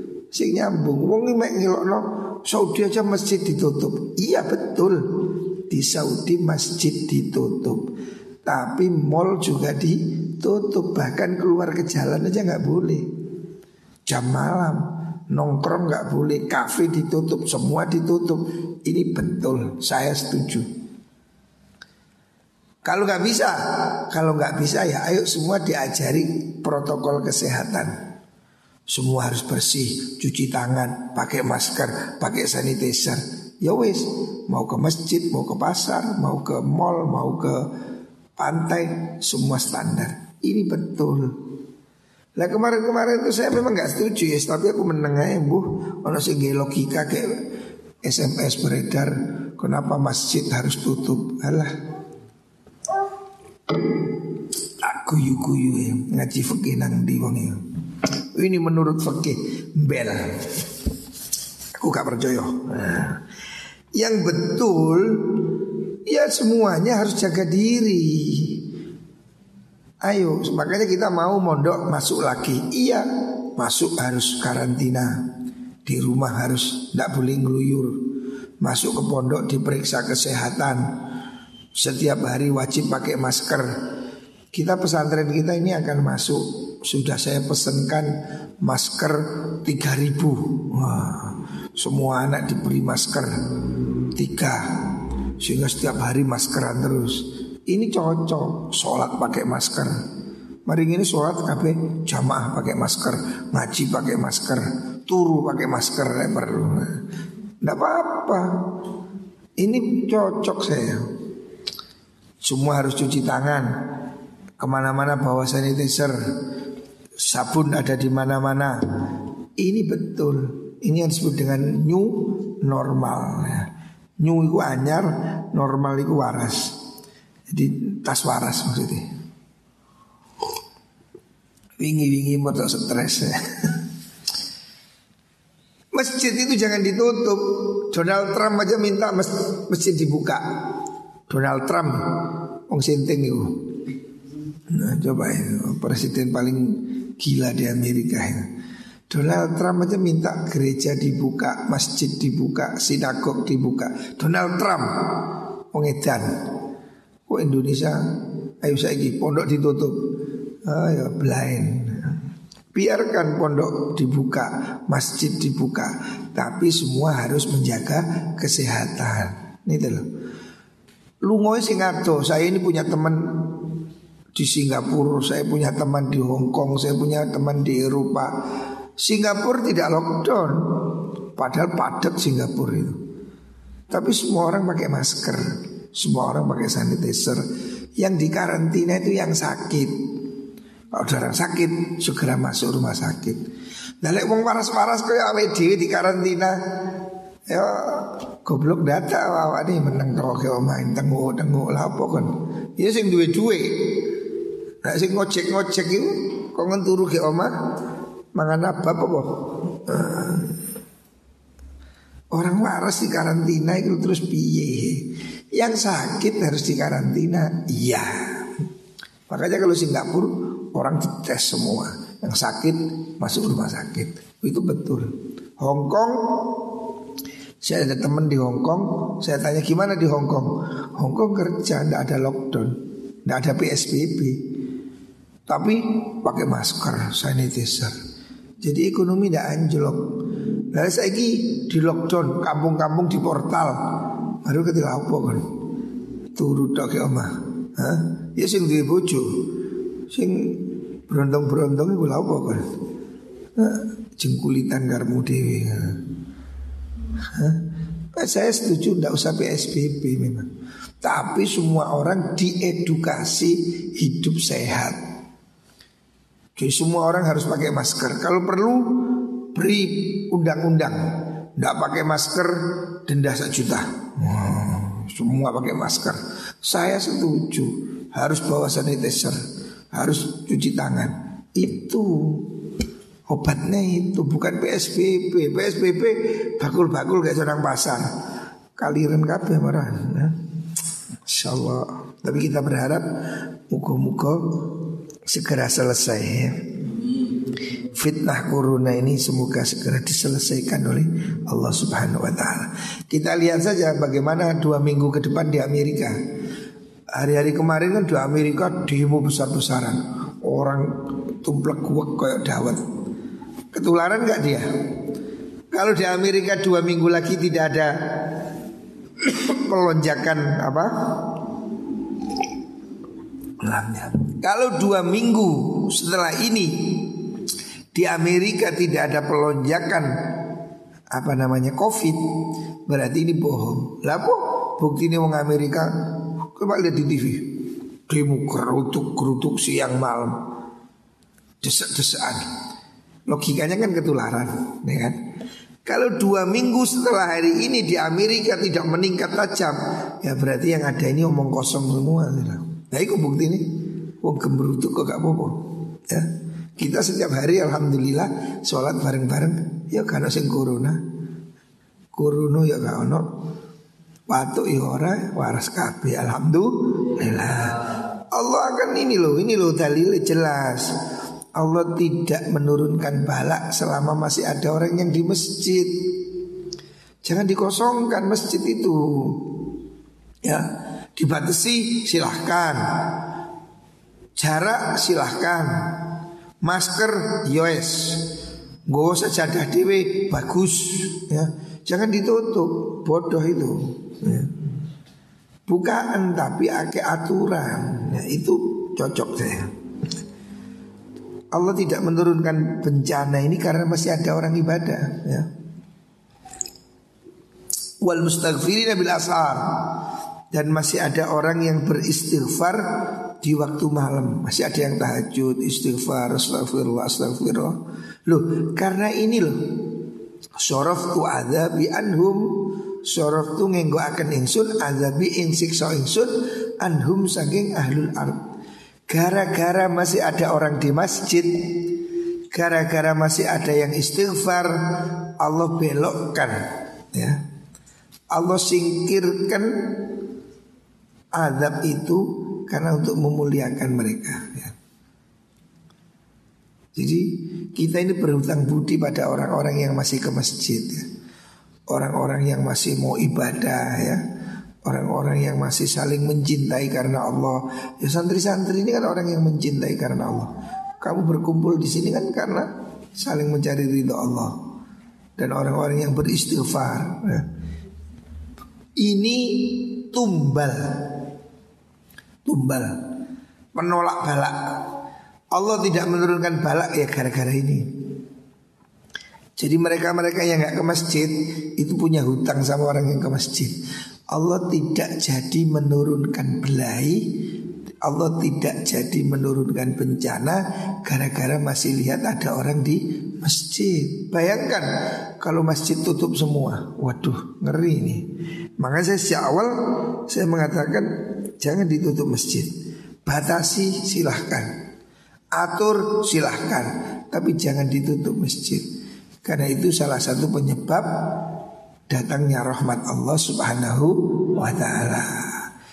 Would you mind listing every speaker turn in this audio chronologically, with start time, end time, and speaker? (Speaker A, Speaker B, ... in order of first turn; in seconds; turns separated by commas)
Speaker A: 0.3-7.8, Speaker A: 8.4-13.1, Speaker A: 14.1-20.7, Speaker A: 22.9-27.9, Speaker A: 28.9-37.7, Speaker A: 38.4-41.4, Speaker A: 42.4-47.3, Speaker A: 48.0-51.7, Speaker A: 54.8-57.6, Speaker A: 58.3-60.6, Speaker A: 61.8-63.2, Speaker A: 64.0-68.7, Speaker A: 70.0-75.2, Speaker A: 75.8-78.0, Speaker A: 78.6-80.8, Speaker A: 81.8-83.7, Speaker A: 84.5-93.5, Speaker A: 94.1-100.0, Speaker A: 100.7-107.0, Speaker A: 107.6-108.6, Speaker A: 109.6-111.0, Speaker A: 112.4-113.7, Speaker A: 114.6-116.2, Speaker A: 117.2-119.0, Speaker A: 119.6-123.7, Speaker A: 124.2-126.8, Speaker A: 127.5-129.1, Speaker A: 131.8-133.8, Speaker A: 135.9-140.4, Speaker A: 141.3-142.0, Speaker A: 142.7-143.6, Speaker A: 144.7-148.5, Speaker A: 149.1-156.3, Speaker A: 157.3-158.0, Speaker A: 158.6-160.1, Speaker A: 160.6-162.2, Speaker A: 162.7-170.1, Speaker A: 171.2-173.7, Speaker A: 174.3-178.3, Speaker A: 179.0-183.0, Speaker A: 183.9-187.4, Speaker A: 188.0-189.9, Speaker A: 190.9-193.4, Speaker A: 194.0-196.6, Speaker A: 197.5-204.2, Speaker A: 204.8-207.5, Speaker A: 208.3-210.6, Speaker A: 212.3-218.6, Speaker A: 219.3-226.9, Speaker A: 227.6-234.6, Speaker A: 235.5-238.0, Speaker A: 238.6-245.5, Speaker A: 246.3-252.7, Speaker A: 253.6-256.0, Speaker A: 257.2-260.5, Speaker A: 261.0-265.0, Speaker A: 266.6-271.0, Speaker A: 271.6-279.4, Speaker A: 279.9-282.5, Speaker A: 283.3-288.1, Speaker A: 288.8-290.4, Speaker A: 291.2-293.0, Speaker A: 293.7-297.2, Speaker A: 297.8-306.2, Speaker A: 307.1-312.8, Speaker A: 313.7-314.7, Speaker A: 315.7-318.4, Speaker A: 319.2-321.5, Speaker A: 323.6-327.3, Speaker A: 327.9-330.5, Speaker A: 331.1-340.4, Speaker A: 341.6-342.5, Speaker A: 343.3-345.2, Speaker A: 345.9-353.7, Speaker A: 354.2-361.0, Speaker A: 362.1-363.3, Speaker A: 364.3-370.9, Speaker A: 371.6-376.2, Speaker A: 377.2-379.6, Speaker A: 380.4-383.2, Speaker A: 384.4-388.3, Speaker A: 388.9-394.6, Speaker A: 395.7-399.7, Speaker A: 401.5-405.5, Speaker A: 408.0-420.0, Speaker A: 420.6-428.4, Speaker A: 429.1-432.0, Speaker A: 432.5-437.4, Speaker A: 438.3-440.1, Speaker A: 441.3-444.7, Speaker A: 446.9-451.0, Speaker A: 451.9-454.2, Speaker A: 454.8-464.6, Speaker A: 465.4-467.5, Speaker A: 469.0-471.1, Speaker A: 472.5-472.9, Speaker A: 473.8-474.6, Speaker A: 475.5-477.9, Speaker A: 479.6-483.8, Speaker A: 484.3-487.4, Speaker A: 488.0-498.2, Speaker A: 498.8-501.1, Speaker A: 501.6-502.7, Speaker A: 503.2-504.7, Speaker A: 505.6-508.9, Speaker A: 509.4-511.6, Speaker A: 512.1-515.7